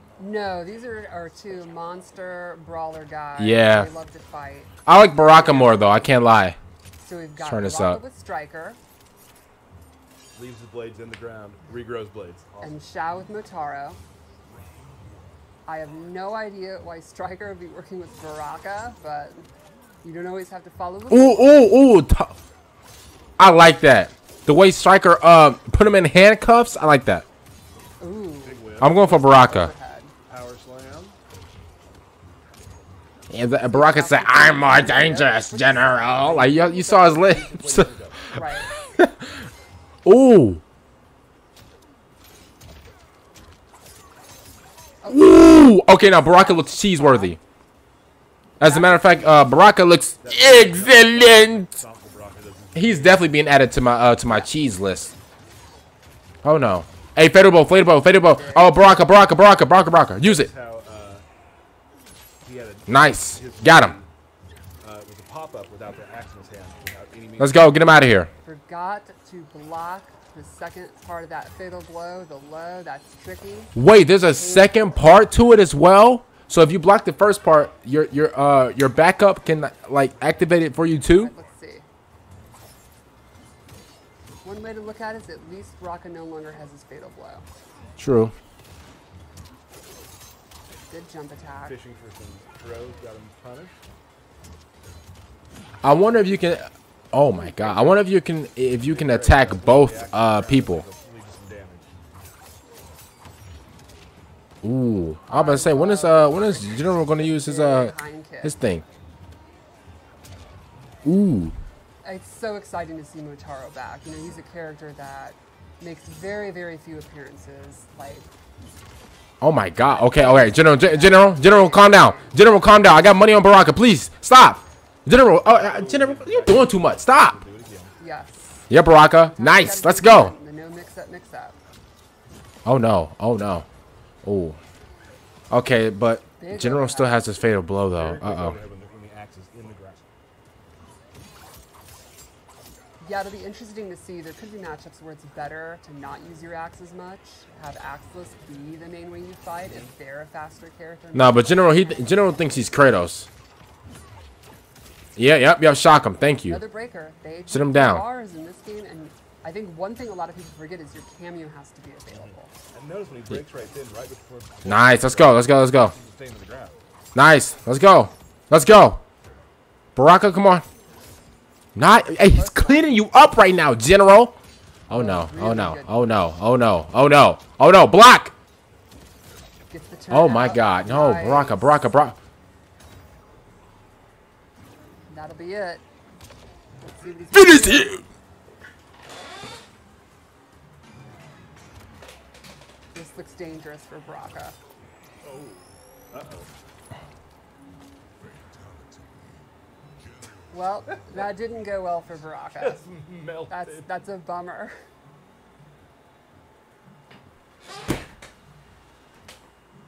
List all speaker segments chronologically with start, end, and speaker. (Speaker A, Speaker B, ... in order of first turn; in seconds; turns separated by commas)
Speaker A: 0.2-6.2, Speaker B: 3.4-3.9, Speaker B: 4.8-6.6, Speaker A: 7.0-8.8, Speaker B: 7.4-8.0, Speaker C: 10.3-12.8, Speaker A: 12.6-14.0, Speaker A: 15.7-19.5, Speaker A: 20.0-21.6, Speaker B: 21.1-22.4, Speaker B: 23.4-27.2, Speaker A: 28.0-30.1, Speaker C: 28.4-29.0, Speaker B: 28.8-29.7, Speaker C: 30.3-31.2, Speaker B: 33.3-37.9, Speaker A: 33.6-36.9, Speaker C: 36.3-38.3, Speaker A: 38.3-38.7, Speaker B: 38.5-39.3, Speaker B: 40.0-40.6, Speaker A: 45.0-45.5, Speaker B: 45.1-47.4, Speaker A: 46.0-47.4, Speaker A: 48.6-49.5, Speaker B: 48.6-51.7, Speaker C: 50.2-53.3, Speaker B: 52.8-55.1, Speaker B: 56.4-60.5, Speaker A: 58.1-58.9, Speaker C: 60.2-61.2, Speaker C: 62.4-64.1, Speaker B: 62.9-64.0, Speaker C: 64.8-67.7, Speaker B: 67.4-68.3, Speaker A: 68.4-75.0, Speaker B: 73.8-81.3, Speaker A: 81.0-81.9, Speaker A: 84.4-87.5, Speaker B: 88.0-88.3, Speaker A: 90.9-91.8, Speaker C: 91.6-93.8, Speaker B: 95.8-100.8, Speaker A: 97.3-98.0, Speaker C: 98.8-102.0, Speaker B: 104.6-108.8, Speaker A: 105.3-108.6, Speaker B: 111.0-111.5, Speaker A: 112.0-118.3, Speaker B: 119.4-127.4, Speaker A: 119.8-122.4, Speaker C: 125.5-127.9, Speaker A: 128.0-131.6, Speaker B: 128.7-130.3, Speaker B: 132.7-133.7, Speaker B: 134.2-134.6, Speaker B: 135.5-138.6, Speaker A: 136.4-137.4, Speaker C: 137.9-140.1, Speaker A: 143.0-152.7, Speaker B: 151.1-153.3, Speaker B: 155.2-156.6, Speaker A: 156.4-162.5, Speaker B: 157.5-158.0, Speaker C: 162.1-166.8, Speaker B: 164.7-165.9, Speaker B: 167.2-169.0, Speaker B: 169.9-170.7, Speaker B: 171.8-174.3, Speaker A: 172.1-172.9, Speaker B: 174.9-178.3, Speaker A: 174.9-175.9, Speaker A: 179.7-182.0, Speaker B: 180.1-182.2, Speaker A: 185.1-185.8, Speaker A: 186.8-187.9, Speaker B: 187.3-188.0, Speaker A: 192.9-194.6, Speaker C: 195.2-196.5, Speaker A: 200.5-202.9, Speaker C: 202.6-203.9, Speaker A: 203.5-204.7